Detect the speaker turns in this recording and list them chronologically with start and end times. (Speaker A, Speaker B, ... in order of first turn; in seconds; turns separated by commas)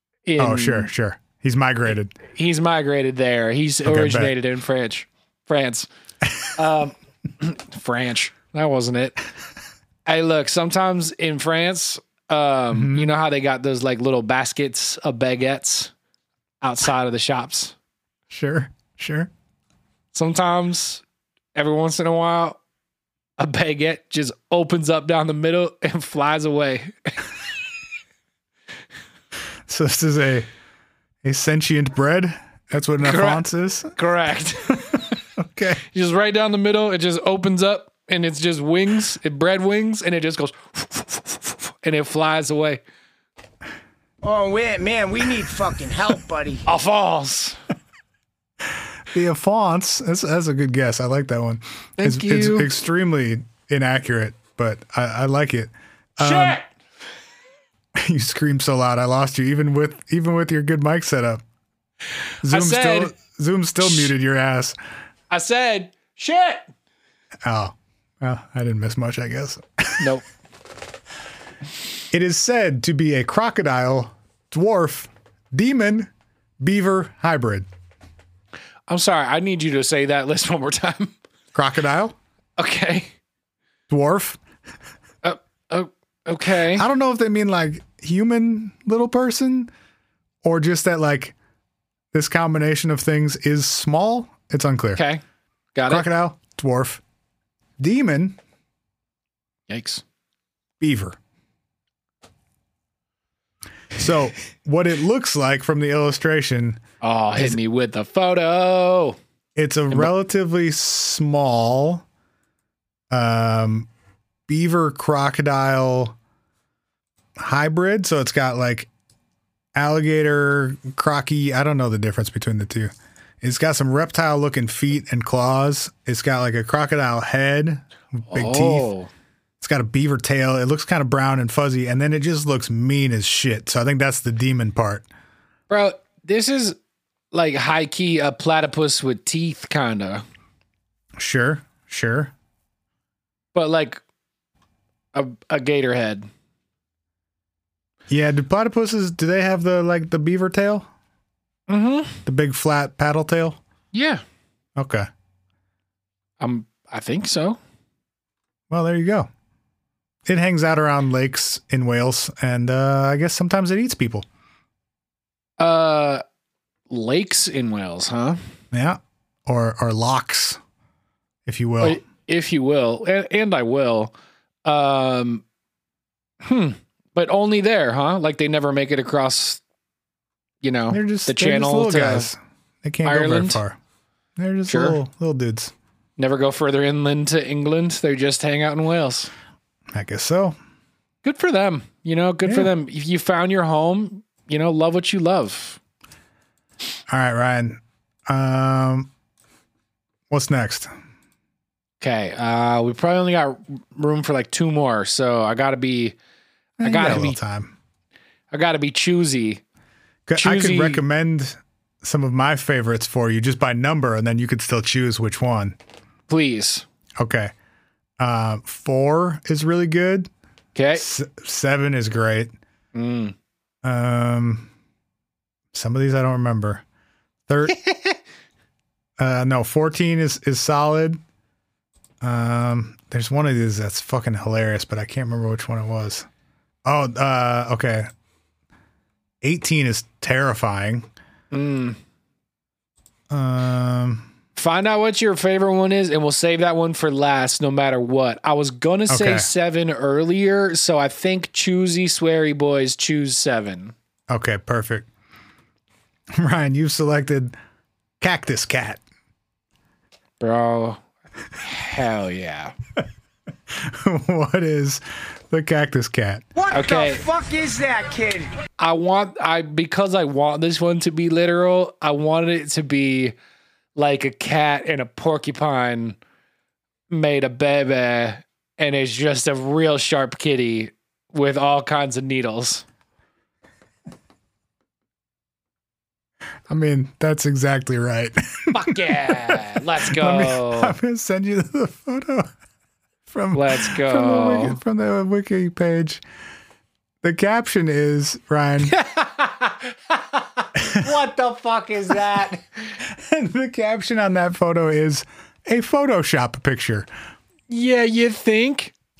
Speaker A: 0.2-0.9, Speaker B: 0.4-2.1, Speaker A: 2.3-5.9, Speaker B: 3.8-4.3, Speaker A: 6.5-9.2, Speaker A: 10.1-15.9, Speaker B: 12.7-13.1, Speaker A: 16.6-17.7, Speaker B: 18.3-19.3, Speaker A: 20.1-21.0, Speaker A: 21.5-22.6, Speaker A: 23.4-27.2, Speaker B: 29.7-30.5, Speaker B: 31.2-33.9, Speaker A: 33.0-35.1, Speaker B: 35.4-35.8, Speaker A: 35.9-42.8, Speaker C: 44.2-46.6, Speaker A: 46.6-47.6, Speaker B: 49.1-56.6, Speaker A: 52.0-52.7, Speaker A: 56.2-56.6, Speaker B: 58.0-61.4, Speaker B: 62.4-64.8, Speaker A: 62.5-63.1, Speaker A: 65.3-66.7, Speaker B: 67.4-70.1, Speaker B: 72.1-76.1, Speaker B: 76.6-77.7, Speaker A: 78.9-81.1, Speaker B: 81.5-82.1, Speaker A: 82.6-83.1, Speaker B: 83.9-84.4, Speaker A: 85.2-86.8, Speaker B: 86.7-89.7, Speaker B: 90.4-91.3, Speaker B: 92.1-95.0, Speaker A: 94.9-95.2, Speaker A: 95.7-96.1, Speaker B: 95.9-97.0, Speaker B: 97.8-98.4, Speaker A: 99.7-100.0, Speaker B: 100.8-101.2, Speaker B: 103.9-106.8, Speaker A: 107.0-109.2, Speaker B: 109.5-112.0, Speaker B: 113.1-113.9, Speaker B: 114.5-116.1, Speaker B: 117.4-118.9, Speaker B: 119.7-128.9, Speaker A: 128.3-129.1, Speaker B: 129.6-135.1, Speaker A: 135.7-136.8, Speaker A: 137.3-140.2, Speaker B: 141.2-142.3, Speaker A: 143.5-144.0, Speaker A: 145.1-146.3, Speaker B: 148.1-150.9, Speaker A: 151.7-152.2, Speaker B: 152.2-153.6, Speaker A: 153.9-154.2, Speaker B: 154.8-155.1, Speaker A: 156.4-157.6, Speaker B: 158.7-159.3, Speaker B: 160.2-164.2, Speaker A: 165.6-166.2, Speaker A: 166.9-168.4, Speaker B: 168.7-170.6, Speaker B: 171.4-172.0, Speaker A: 171.8-174.1, Speaker A: 174.6-175.4, Speaker A: 176.4-179.6, Speaker A: 180.6-182.3, Speaker B: 180.9-183.8, Speaker A: 183.0-183.6, Speaker B: 184.4-185.7, Speaker A: 184.7-185.0, Speaker A: 186.2-189.3, Speaker B: 189.9-190.6, Speaker A: 191.2-195.8, Speaker B: 192.4-192.7, Speaker B: 197.1-199.1, Speaker B: 200.3-200.9, Speaker A: 202.0-206.2, Speaker B: 206.8-207.7, Speaker A: 206.8-207.4, Speaker A: 208.5-209.6, Speaker B: 210.3-215.8, Speaker A: 210.4-211.0, Speaker A: 216.3-216.8, Speaker B: 217.2-217.5, Speaker B: 218.2-220.3, Speaker A: 220.7-221.1, Speaker B: 220.9-222.5, Speaker A: 222.9-223.3, Speaker B: 223.8-224.7, Speaker B: 225.7-226.8, Speaker B: 227.5-227.8, Speaker A: 227.7-228.2, Speaker B: 229.2-231.2, Speaker B: 232.2-236.3, Speaker B: 236.8-238.1, Speaker B: 239.4-241.1, Speaker A: 241.5-242.0, Speaker B: 243.3-244.3, Speaker A: 244.6-253.9, Speaker B: 249.1-249.5, Speaker B: 254.3-255.1, Speaker B: 256.3-257.5, Speaker B: 258.2-259.0, Speaker A: 260.4-261.0, Speaker A: 261.6-262.7, Speaker B: 263.7-266.4, Speaker C: 266.6-268.5, Speaker A: 266.7-267.2, Speaker A: 268.8-273.3, Speaker A: 273.9-276.2, Speaker A: 277.1-282.8, Speaker B: 286.7-292.5, Speaker A: 288.7-290.9, Speaker B: 293.3-296.2, Speaker A: 293.5-294.8, Speaker B: 297.2-298.9, Speaker A: 298.8-302.9, Speaker B: 303.1-307.1, Speaker A: 307.7-308.9